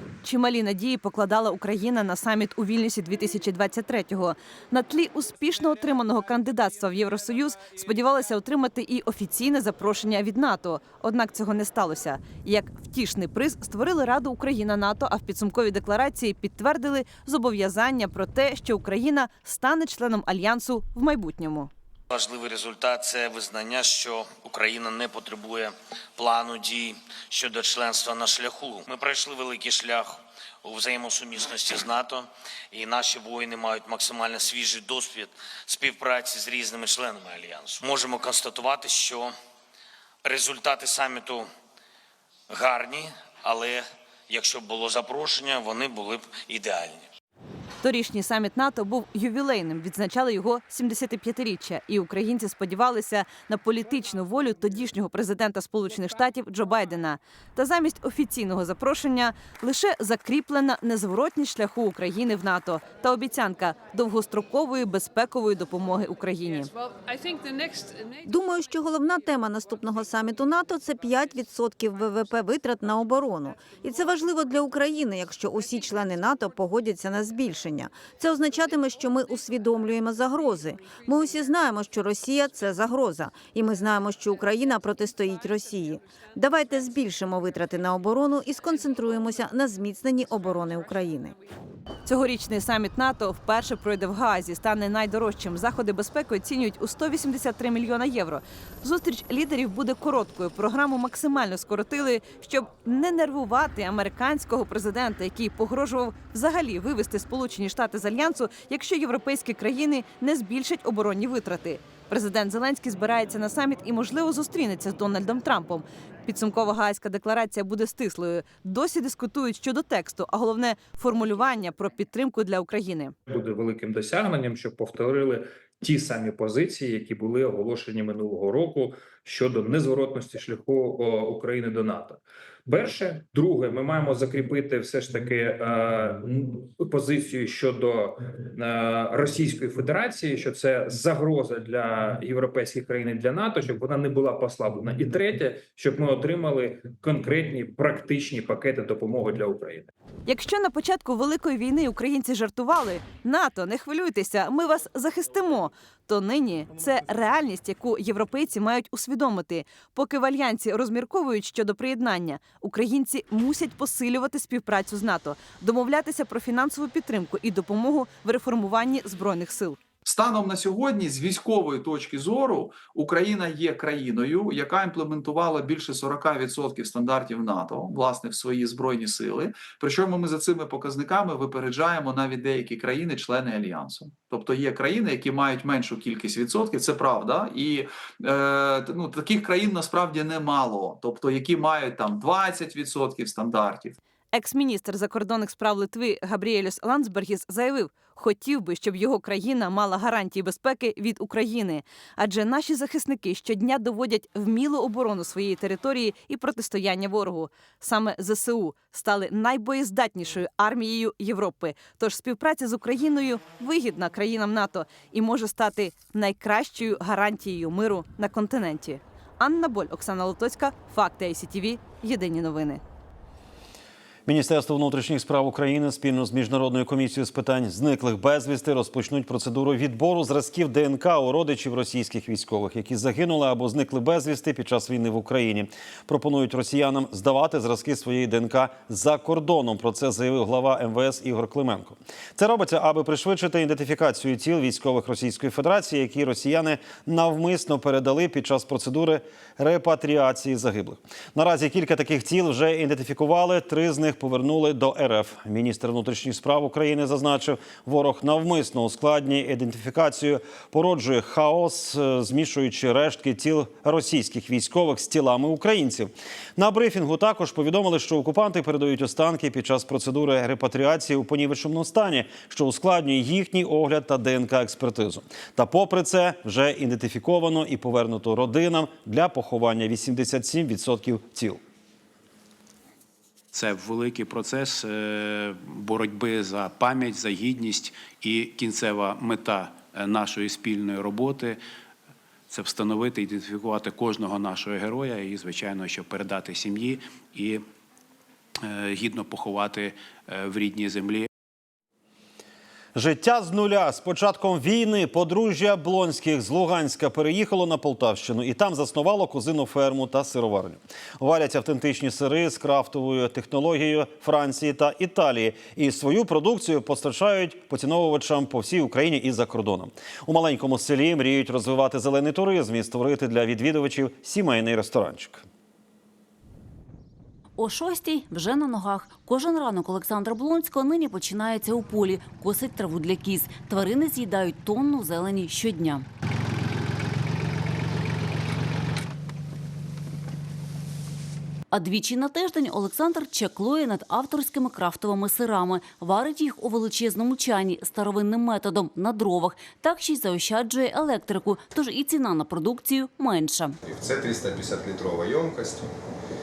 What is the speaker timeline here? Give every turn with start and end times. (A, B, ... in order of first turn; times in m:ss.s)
0:00.2-0:21.7 A
0:22.1-0:39.3 B
0:40.2-0:41.5 B
0:42.5-0:47.1 B
0:47.8-1:06.7 A
1:08.2-1:31.3 C
1:32.0-2:03.1 A
2:03.3-2:29.9 D
2:30.3-2:49.8 A
2:50.0-3:14.0 E
3:14.3-3:42.8 A
3:44.2-4:41.6 F
4:43.5-4:51.6 G
4:52.5-4:57.6 G
4:58.6-5:01.3 G
5:02.9-5:25.4 F
5:27.6-5:36.0 H
5:41.7-5:53.8 H
5:53.8-5:55.9 I